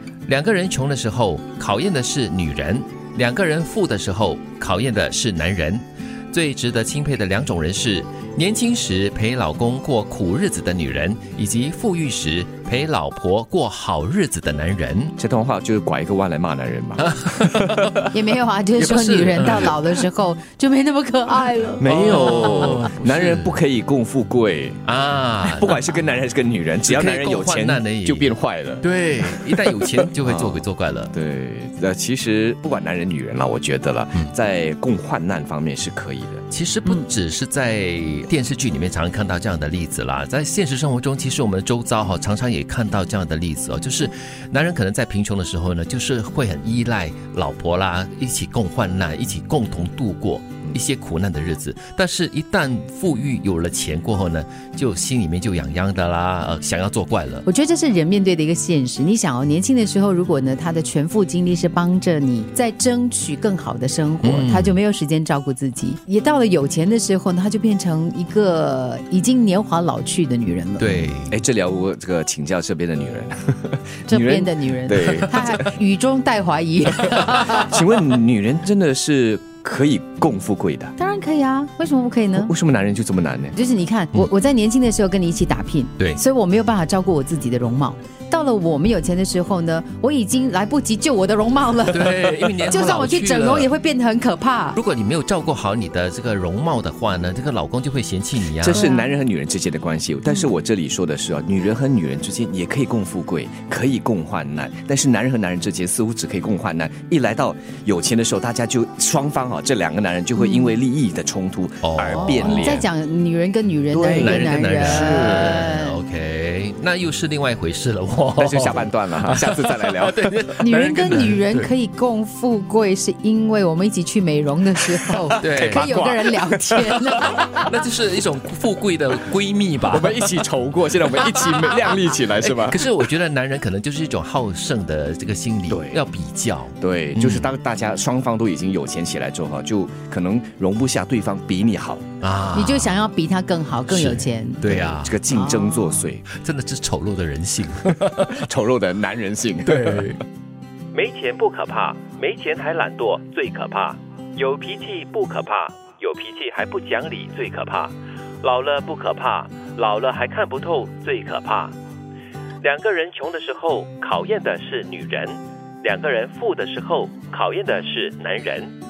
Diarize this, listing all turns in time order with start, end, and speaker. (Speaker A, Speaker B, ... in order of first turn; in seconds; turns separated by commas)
Speaker A: 0.3-15.1, Speaker B: 15.2-17.9, Speaker A: 17.0-18.0, Speaker C: 18.1-22.9, Speaker A: 18.8-19.8, Speaker B: 21.8-24.8, Speaker A: 21.8-23.6, Speaker A: 24.8-25.9, Speaker B: 25.4-36.4, Speaker A: 26.8-31.1, Speaker A: 36.5-57.5, Speaker C: 57.5-70.9, Speaker A: 64.2-64.8, Speaker A: 70.8-71.3, Speaker B: 71.3-75.7, Speaker C: 74.1-77.7, Speaker B: 77.0-80.9, Speaker C: 81.0-82.5, Speaker B: 82.3-83.5, Speaker C: 83.5-94.8, Speaker A: 91.9-93.7, Speaker A: 94.7-98.8, Speaker B: 98.6-112.8, Speaker C: 98.7-99.1, Speaker C: 110.3-110.7, Speaker A: 111.8-112.8, Speaker C: 112.1-116.0, Speaker B: 113.9-115.6, Speaker A: 114.0-121.7, Speaker B: 118.4-120.4, Speaker C: 120.6-127.7, Speaker A: 125.4-125.9, Speaker B: 125.4-127.4, Speaker A: 127.7-130.2, Speaker B: 129.9-132.8, Speaker A: 131.2-137.5, Speaker B: 135.7-136.0, Speaker B: 136.8-142.1, Speaker A: 142.2-142.9, Speaker C: 142.5-144.6, Speaker A: 143.9-145.2, Speaker B: 144.6-146.2, Speaker C: 145.3-145.9, Speaker A: 146.2-148.4, Speaker B: 148.2-150.1, Speaker A: 149.7-150.2, Speaker A: 150.9-161.7, Speaker A: 162.6-168.7